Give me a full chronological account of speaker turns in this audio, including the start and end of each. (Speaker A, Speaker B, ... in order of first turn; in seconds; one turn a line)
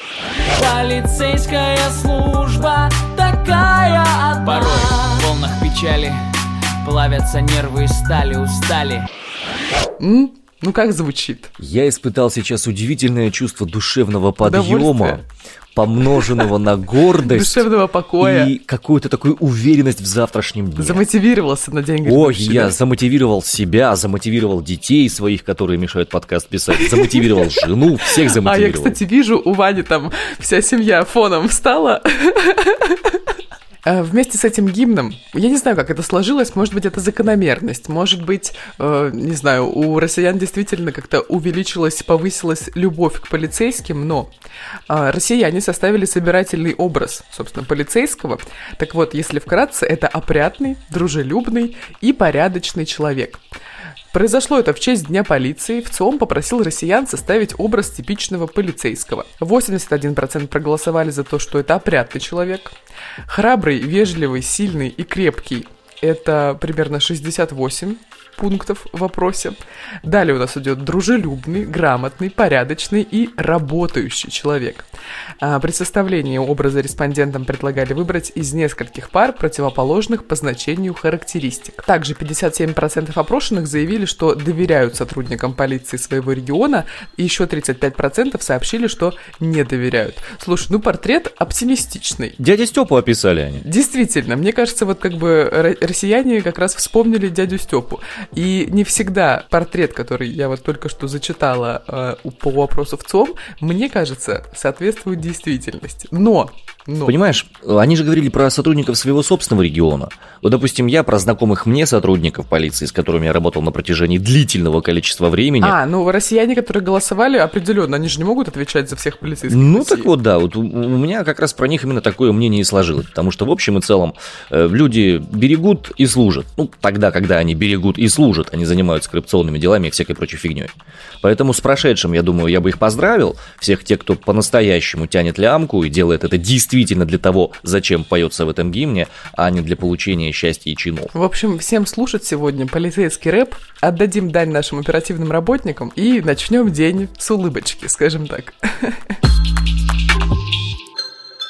Speaker A: 0.4-6.2
Speaker A: 6.8-9.1
Speaker B: 10.0-11.5
Speaker C: 11.6-15.2
Speaker B: 14.4-15.2
Speaker C: 15.8-17.6
Speaker B: 17.2-18.5
Speaker C: 18.2-21.0
Speaker B: 20.8-22.7
Speaker C: 22.0-29.0
Speaker B: 26.7-27.6
Speaker B: 28.2-33.2
Speaker B: 33.8-44.3
Speaker B: 44.9-53.4
Speaker B: 54.1-62.7
Speaker B: 63.3-74.9
Speaker B: 75.4-92.3
Speaker C: 92.4-93.6
Speaker B: 93.6-107.2
Speaker C: 107.0-115.8
Speaker B: 115.6-120.1
Speaker C: 119.5-141.1
Speaker B: 141.1-149.2